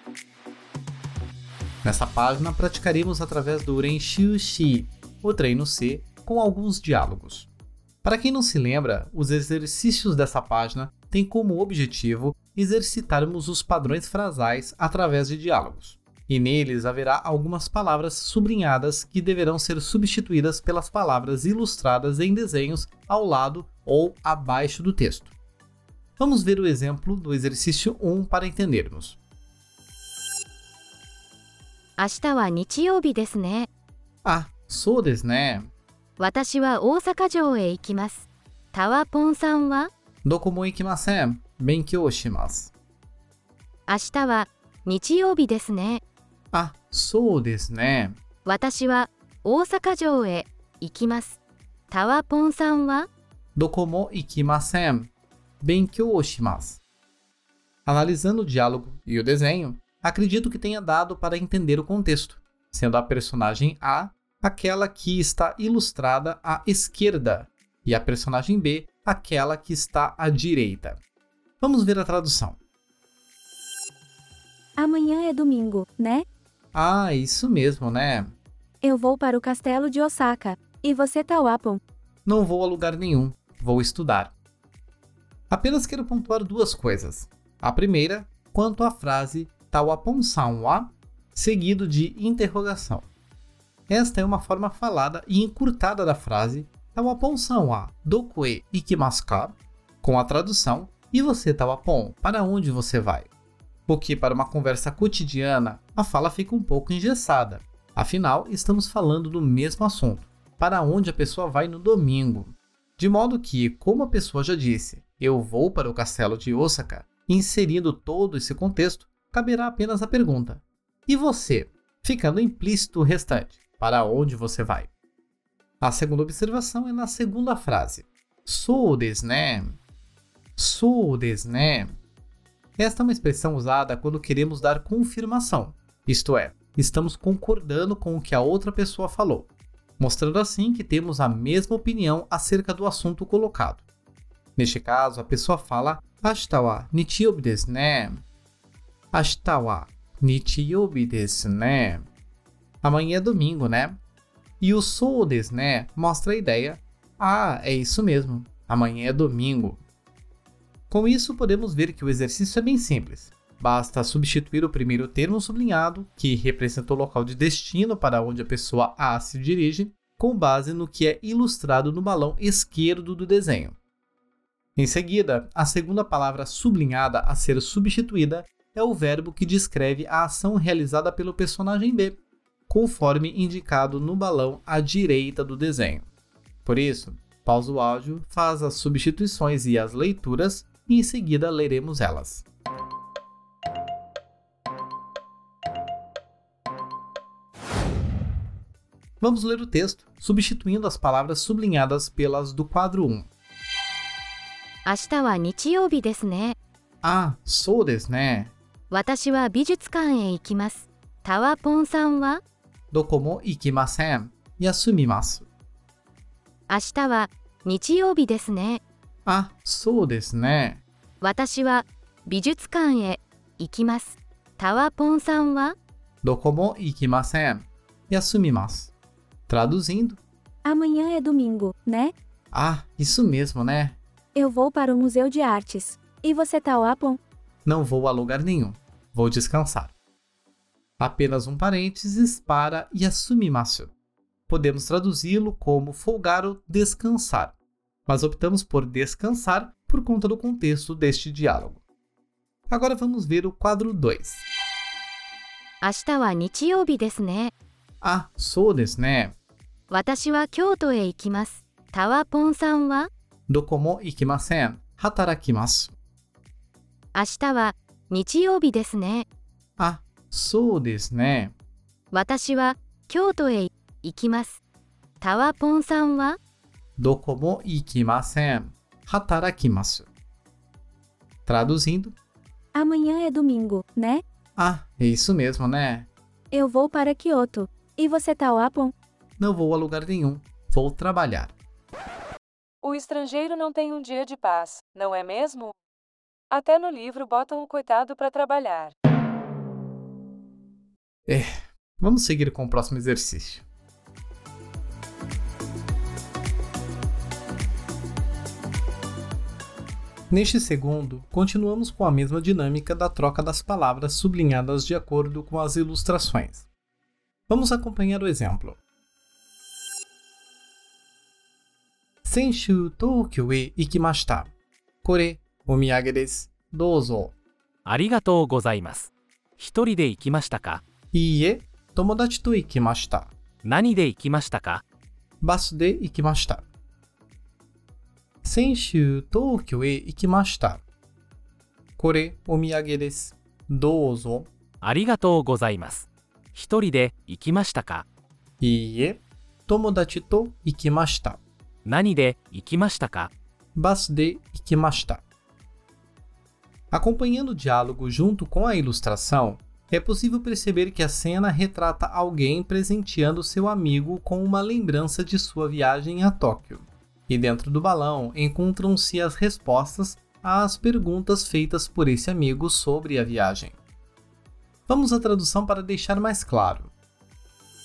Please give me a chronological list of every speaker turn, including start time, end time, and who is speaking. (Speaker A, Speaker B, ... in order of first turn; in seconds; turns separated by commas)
Speaker A: 1.8-7.5, Speaker A: 8.0-25.3, Speaker A: 26.2-29.2, Speaker B: 32.0-33.7, Speaker A: 34.2-35.7, Speaker B: 36.2-39.9, Speaker A: 40.2-42.7, Speaker B: 43.9-46.0, Speaker A: 46.5-48.2, Speaker B: 48.5-51.4, Speaker B: 51.9-53.1, Speaker A: 53.6-56.8, Speaker A: 57.9-71.0, Speaker A: 71.6-72.6, Speaker C: 74.8-76.2, Speaker A: 76.7-78.3, Speaker C: 78.8-81.8, Speaker A: 82.3-84.3, Speaker A: 85.5-93.1, Speaker A: 93.9-103.3, Speaker A: 103.9-124.9, Speaker A: 125.8-129.8, Speaker A: 130.6-132.0, Speaker A: 132.8-143.8, Speaker A: 144.6-148.2, Speaker A: 149.1-152.1, Speaker A: 152.8-154.0, Speaker A: 154.6-159.8, Speaker A: 160.9-173.8, Speaker A: 174.8-186.1, Speaker A: 186.7-192.4, Speaker A: 199.2-203.3, Speaker B: 204.9-206.6, Speaker A: 207.0-208.5, Speaker B: 208.9-212.4, Speaker A: 212.9-215.5, Speaker B: 216.7-218.8, Speaker A: 219.3-220.8, Speaker B: 221.2-225.8, Speaker A: 226.2-228.9, Speaker A: 229.5-230.2, Speaker C: 230.7-232.1, Speaker A: 232.5-234.0, Speaker C: 234.4-237.2, Speaker A: 237.7-239.9, Speaker A: 241.0-243.9, Speaker A: 244.5-247.6, Speaker A: 248.1-251.8, Speaker A: 252.7-254.4, Speaker B: 255.8-257.5, Speaker A: 258.0-259.4, Speaker B: 259.9-263.1, Speaker A: 263.5-265.9, Speaker B: 267.1-269.3, Speaker A: 269.8-271.6, Speaker B: 272.1-274.6, Speaker B: 275.2-276.4, Speaker A: 277.0-280.1, Speaker A: 281.5-282.2, Speaker C: 282.8-284.2, Speaker A: 284.6-286.1, Speaker C: 286.5-288.9, Speaker A: 289.4-291.6, Speaker D: 292.8-295.8, Speaker D: 296.5-298.9, Speaker A: 301.3-303.6, Speaker A: 310.3-316.7, Speaker A: 317.5-318.8, Speaker A: 322.2-324.5, Speaker A: 325.0-327.4, Speaker E: 327.9-330.8, Speaker A: 331.1-333.3, Speaker E: 333.6-334.8, Speaker A: 335.4-336.7, Speaker A: 338.4-340.8, Speaker A: 342.0-344.5, Speaker E: 344.8-348.1, Speaker A: 348.6-351.4, Speaker E: 351.9-353.3, Speaker A: 353.8-355.2, Speaker A: 356.9-373.8, Speaker A: 374.9-376.9